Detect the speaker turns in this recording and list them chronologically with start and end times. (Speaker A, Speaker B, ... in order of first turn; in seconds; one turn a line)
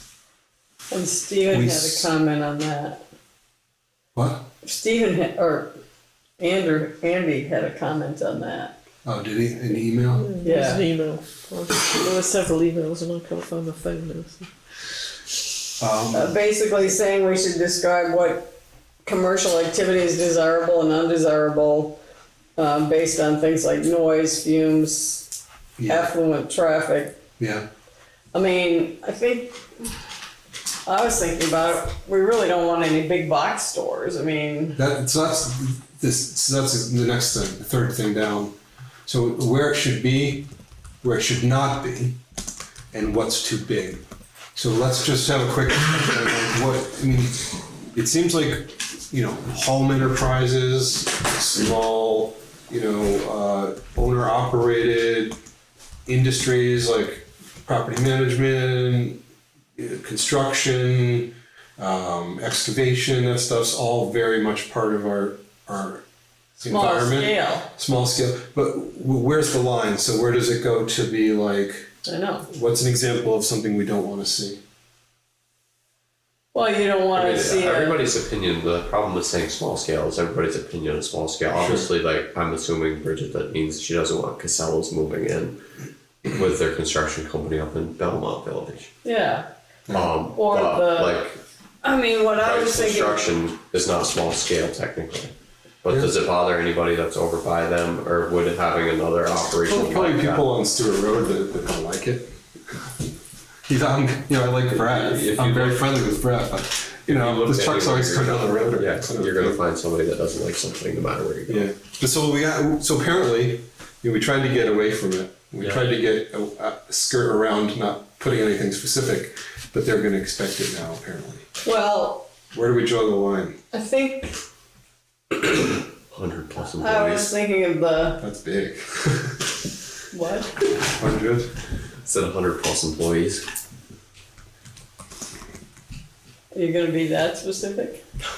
Speaker A: 0.9-3.0
Speaker B: 1.5-2.1
Speaker B: 4.1-4.5
Speaker A: 4.6-5.8
Speaker A: 6.4-8.7
Speaker B: 9.0-10.3
Speaker C: 10.2-14.4
Speaker A: 10.4-10.8
Speaker B: 15.8-16.3
Speaker A: 16.1-18.5
Speaker A: 19.1-22.0
Speaker A: 22.6-25.3
Speaker B: 25.8-26.1
Speaker A: 25.9-27.2
Speaker B: 27.4-27.6
Speaker A: 28.3-29.7
Speaker A: 30.9-34.8
Speaker B: 34.8-38.5
Speaker B: 39.0-40.5
Speaker B: 41.0-42.2
Speaker B: 42.9-44.0
Speaker B: 44.5-55.4
Speaker B: 56.1-59.2
Speaker B: 59.8-66.0
Speaker B: 66.6-71.9
Speaker A: 66.7-67.7
Speaker A: 72.0-72.5
Speaker B: 72.5-74.6
Speaker A: 76.5-78.0
Speaker D: 77.1-85.6
Speaker B: 81.6-81.9
Speaker D: 86.3-88.9
Speaker A: 89.0-89.5
Speaker B: 89.9-90.1
Speaker D: 89.9-91.4
Speaker A: 90.3-91.2
Speaker A: 91.8-93.3
Speaker D: 92.4-95.3
Speaker D: 95.8-100.5
Speaker B: 99.7-102.3
Speaker B: 103.7-109.6
Speaker D: 104.7-105.8
Speaker D: 107.1-111.7
Speaker B: 111.5-121.5
Speaker D: 115.6-115.9
Speaker A: 121.6-122.3
Speaker B: 122.5-123.6
Speaker A: 123.7-124.3
Speaker D: 126.1-127.3
Speaker A: 126.8-128.2
Speaker B: 128.2-129.5
Speaker A: 130.1-130.5
Speaker B: 130.9-131.5
Speaker D: 132.0-133.4
Speaker A: 136.5-138.0